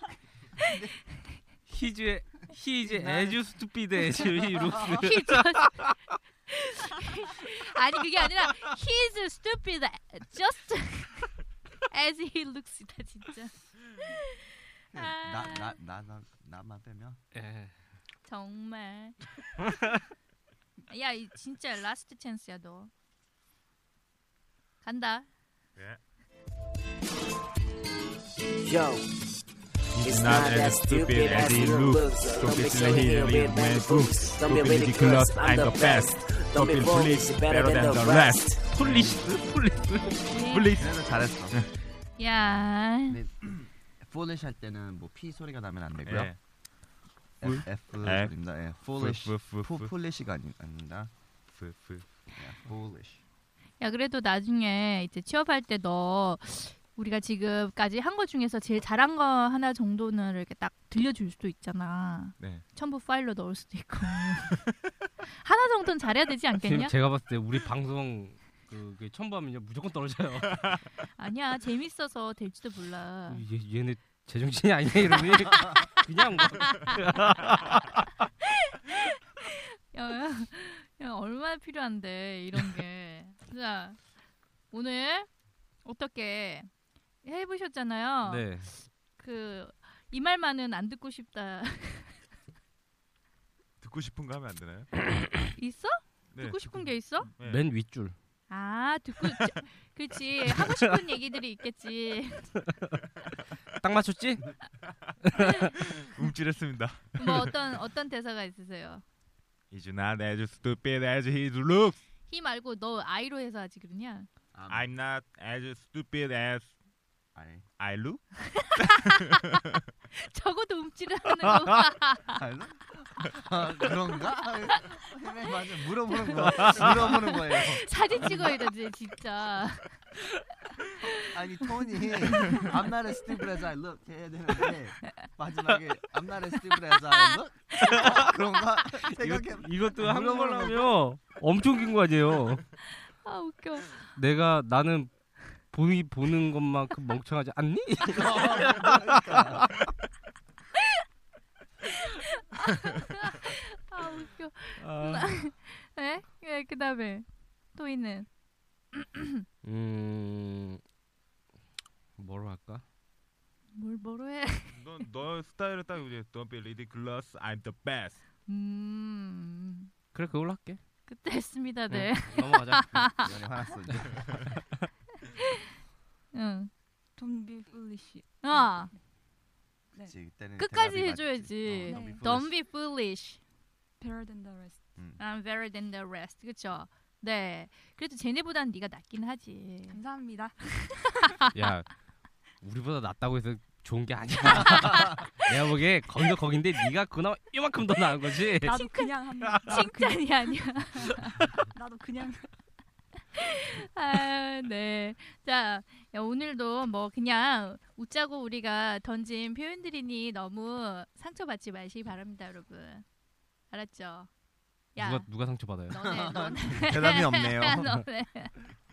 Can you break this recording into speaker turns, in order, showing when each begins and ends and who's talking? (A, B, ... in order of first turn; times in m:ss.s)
0:01.7-0:05.5 A
0:05.0-0:05.8 B
0:06.5-0:11.4 B
0:11.9-0:15.7 B
0:14.9-0:17.2 C
0:17.3-0:17.7 A
0:18.2-0:19.2 B
0:20.9-0:22.9 B
0:24.8-0:25.3 B
0:28.6-0:29.0 D
0:29.9-0:39.0 E
0:30.0-0:38.6 D
0:38.7-0:40.8 A
0:38.8-0:39.3 C
0:40.3-0:40.7 B
0:40.8-0:41.6 C
0:42.2-0:43.2 B
0:43.1-0:46.3 C
0:46.0-0:46.4 E
0:47.4-0:51.1 C
0:47.4-0:48.3 E
0:48.9-0:49.9 E
0:51.5-0:52.0 E
0:52.4-0:53.2 C
0:53.8-1:04.6 B
1:05.3-1:06.9 B
1:06.6-1:10.6 A
1:11.1-1:13.4 B
1:13.3-1:17.6 A
1:18.8-1:24.0 B
1:24.7-1:25.3 B
1:25.8-1:26.7 B
1:27.2-1:32.2 B
1:28.3-1:28.7 A
1:33.8-1:34.9 E
1:35.6-1:37.3 B
1:36.3-1:37.7 E
1:37.4-1:38.2 A
1:38.5-1:42.5 B
1:43.8-1:44.4 A
1:46.0-1:47.5 E
1:47.2-1:49.0 B
1:49.7-1:52.0 E
1:52.3-1:54.3 B
1:54.5-1:54.9 C
1:54.7-1:56.7 E
1:57.3-1:57.6 C
1:57.8-1:58.8 E
1:58.8-1:59.2 B
2:00.1-2:02.4 B
2:02.3-2:08.6 C
2:06.1-2:10.0 B
2:11.2-2:20.9 C
2:12.0-2:12.7 B
2:16.9-2:18.0 B
2:19.0-2:22.6 A
2:23.1-2:24.1 B
2:24.1-2:25.1 A
2:25.7-2:29.3 A
2:28.1-2:29.7 C
2:32.0-2:38.3 B
2:34.8-2:35.3 A
2:38.9-2:39.4 B
2:39.6-2:40.8 A
2:42.2-2:42.8 A
2:43.7-2:45.0 B
2:44.7-2:48.2 E
2:48.5-2:49.9 B
2:50.1-2:50.8 A
2:51.1-2:53.2 B
2:51.9-2:53.1 A
2:53.1-2:54.5 C
2:56.3-2:56.7 B
2:57.2-2:58.9 F
2:58.4-2:58.9 B
3:00.0-3:02.5 C
3:00.6-3:03.4 B
3:01.9-3:02.3 F
3:04.0-3:04.8 F
3:05.2-3:10.0 B
3:09.9-3:11.3 F
3:11.5-3:11.9 A
3:12.6-3:18.8 A
3:14.6-3:15.3 B
3:18.6-3:22.6 F
3:18.8-3:19.1 B
3:19.6-3:21.2 B
3:23.4-3:33.0 B
3:33.7-3:34.3 B
3:34.9-3:35.3 B
3:35.0-3:36.0 A
3:35.8-3:38.6 B
3:36.0-3:37.9 C